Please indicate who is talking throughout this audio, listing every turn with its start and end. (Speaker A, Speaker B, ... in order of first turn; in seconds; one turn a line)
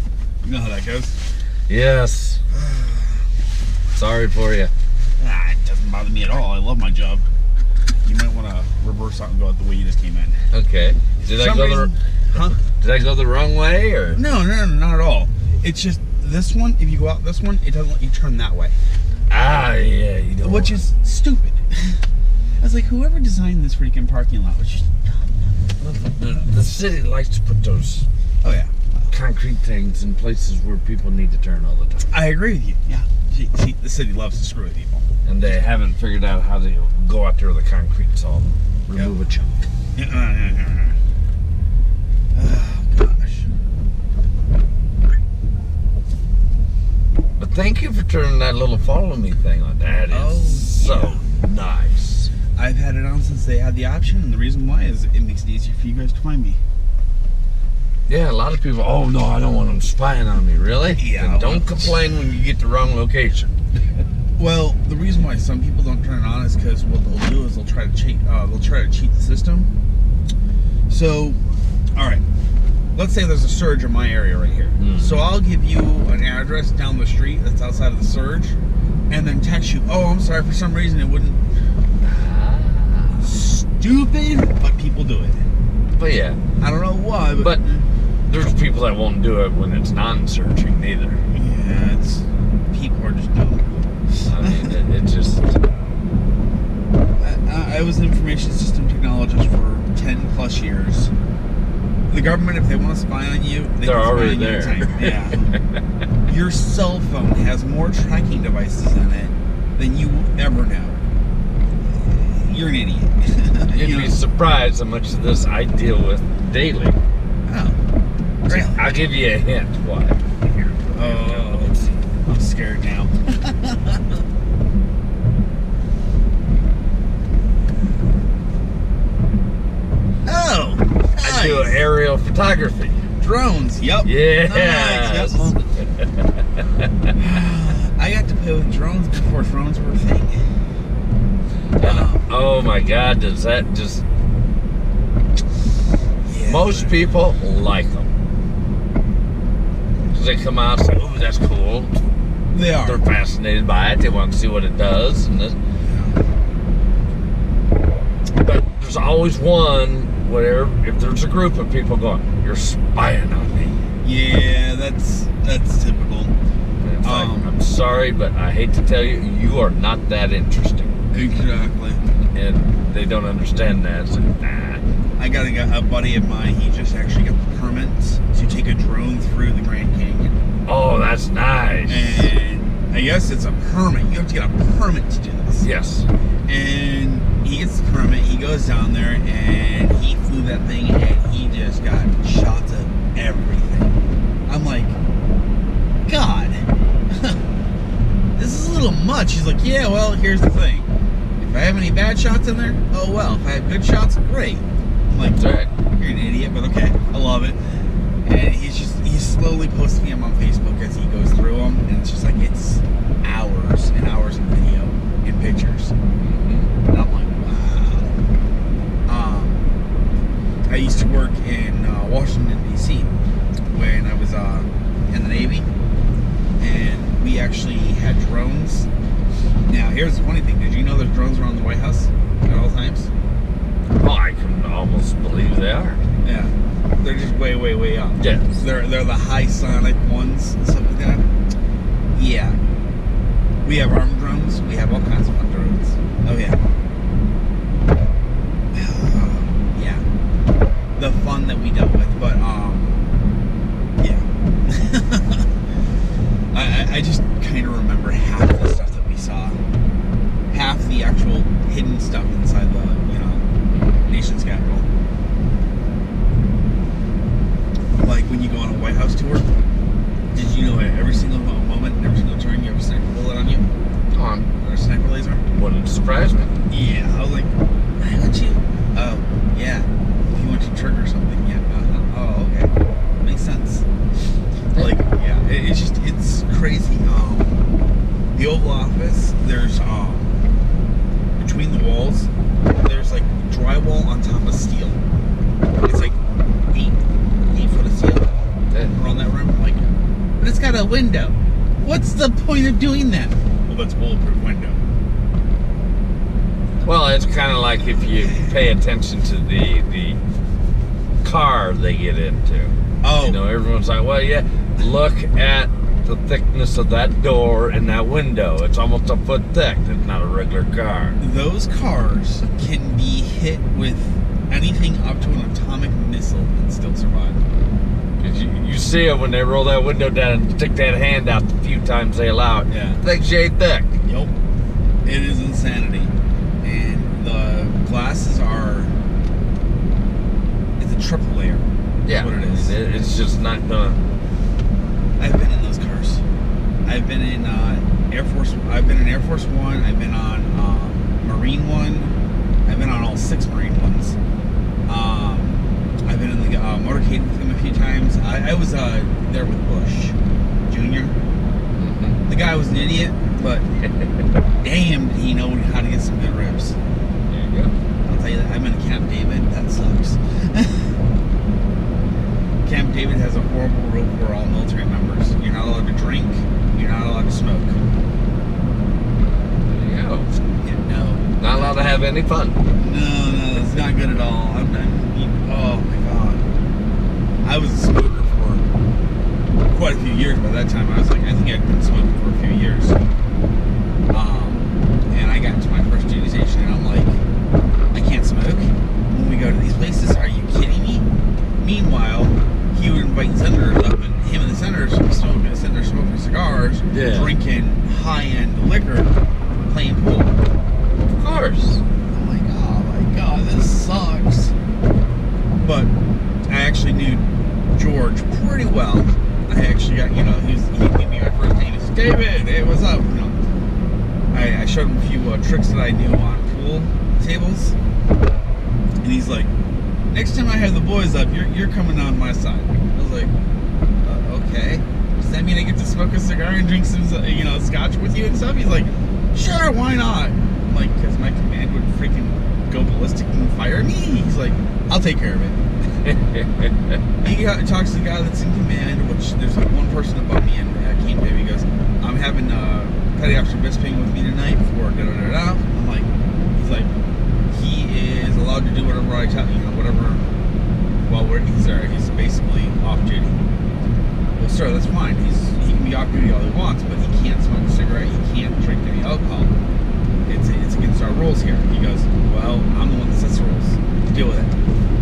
Speaker A: 0.4-1.2
Speaker B: 1.7-2.4
Speaker A: 2.5-3.2
Speaker B: 3.9-4.7
Speaker A: 5.2-7.2
Speaker A: 8.0-10.4
Speaker B: 10.5-14.2
Speaker A: 11.2-12.6
Speaker A: 14.1-18.8
Speaker B: 19.3-20.8
Speaker A: 20.4-22.0
Speaker A: 22.6-25.5
Speaker B: 25.8-28.1
Speaker A: 28.4-29.1
Speaker B: 29.1-32.1
Speaker A: 32.1-35.1
Speaker B: 35.2-39.6
Speaker A: 39.9-41.0
Speaker A: 42.3-43.5
Speaker B: 47.4-52.3
Speaker A: 50.1-51.2
Speaker A: 52.5-56.6
Speaker B: 58.1-63.5
Speaker A: 61.0-62.2
Speaker A: 64.4-69.7
Speaker A: 70.9-71.4
Speaker A: 71.9-72.2
Speaker A: 72.9-78.6
Speaker B: 74.8-75.2
Speaker A: 79.1-81.5
Speaker B: 82.0-83.3
Speaker A: 83.2-85.5
Speaker B: 86.0-86.4
Speaker A: 86.6-87.9
Speaker B: 87.3-87.6
Speaker B: 88.3-91.2
Speaker A: 91.3-94.7
Speaker B: 94.2-95.6
Speaker A: 97.2-101.1
Speaker A: 102.1-105.5
Speaker B: 103.8-105.8
Speaker A: 106.2-111.0
Speaker A: 111.8-114.2
Speaker B: 113.7-117.0
Speaker A: 117.5-117.8
Speaker A: 118.4-118.9
Speaker B: 118.5-122.0
Speaker A: 120.9-121.7
Speaker A: 122.2-124.2
Speaker A: 130.2-131.8
Speaker B: 131.2-133.0
Speaker A: 133.2-135.6
Speaker B: 134.0-136.6
Speaker A: 137.1-140.5
Speaker B: 141.8-144.0
Speaker A: 141.8-142.3
Speaker A: 146.2-147.0
Speaker B: 146.4-148.1
Speaker B: 150.1-152.0
Speaker A: 152.5-153.1
Speaker B: 152.9-155.6
Speaker A: 155.8-156.2
Speaker B: 158.4-163.8
Speaker A: 164.0-166.3
Speaker B: 166.8-170.9
Speaker A: 167.0-167.5
Speaker A: 171.1-172.0
Speaker B: 172.3-174.8
Speaker A: 175.2-180.4
Speaker B: 180.7-182.3
Speaker A: 181.9-185.7
Speaker B: 185.6-186.1
Speaker A: 186.5-193.9
Speaker A: 194.5-194.9
Speaker A: 196.1-197.4
Speaker A: 198.3-200.9
Speaker A: 201.4-205.4
Speaker B: 205.3-205.7
Speaker A: 205.9-215.9
Speaker B: 216.2-216.7
Speaker A: 216.9-218.1
Speaker A: 219.1-219.7
Speaker A: 220.7-223.1
Speaker A: 223.7-225.7
Speaker A: 226.6-228.9
Speaker A: 229.7-233.1
Speaker B: 234.0-236.0
Speaker A: 236.2-241.3
Speaker B: 238.2-238.6
Speaker A: 242.1-242.6
Speaker A: 243.6-246.6
Speaker A: 248.7-250.1
Speaker A: 250.9-253.0
Speaker A: 254.0-255.5
Speaker A: 256.5-259.6
Speaker A: 260.5-263.4
Speaker B: 263.7-264.2
Speaker A: 264.1-264.9
Speaker A: 268.0-269.5
Speaker A: 270.3-273.7
Speaker B: 274.1-274.5
Speaker A: 274.6-275.4
Speaker B: 275.5-276.5
Speaker A: 276.7-283.9
Speaker A: 284.8-287.6
Speaker A: 288.3-290.3
Speaker A: 291.4-295.0
Speaker A: 295.8-296.2
Speaker A: 296.7-304.8
Speaker B: 298.7-298.9
Speaker B: 306.8-310.2
Speaker A: 307.8-308.6
Speaker B: 311.2-321.2
Speaker A: 313.0-313.4
Speaker A: 321.2-327.4
Speaker B: 328.2-334.0
Speaker A: 332.7-333.0
Speaker A: 334.0-334.3
Speaker A: 335.0-338.9
Speaker A: 340.8-343.1
Speaker B: 342.0-344.0
Speaker A: 345.2-346.2
Speaker A: 346.9-354.2
Speaker A: 354.9-360.1
Speaker A: 360.7-361.1
Speaker B: 361.7-362.2
Speaker A: 362.2-363.7
Speaker A: 364.6-366.8
Speaker B: 367.3-367.7
Speaker A: 368.0-371.0
Speaker A: 372.6-377.8
Speaker B: 379.6-380.4
Speaker A: 380.6-381.4
Speaker B: 381.4-382.6
Speaker A: 382.8-386.5
Speaker A: 387.4-388.6
Speaker A: 389.7-393.0
Speaker A: 394.1-397.2
Speaker A: 397.9-401.1
Speaker A: 401.6-409.1
Speaker B: 406.9-407.3
Speaker A: 409.7-410.4
Speaker B: 411.1-411.8
Speaker A: 412.1-414.5
Speaker A: 415.6-415.9
Speaker A: 416.5-423.4
Speaker A: 424.3-427.8
Speaker A: 429.0-429.5
Speaker A: 430.1-433.3
Speaker A: 434.0-445.6
Speaker B: 446.1-446.7
Speaker A: 447.2-456.9
Speaker A: 457.5-460.3
Speaker A: 461.0-463.4
Speaker A: 464.4-469.5
Speaker A: 470.3-474.6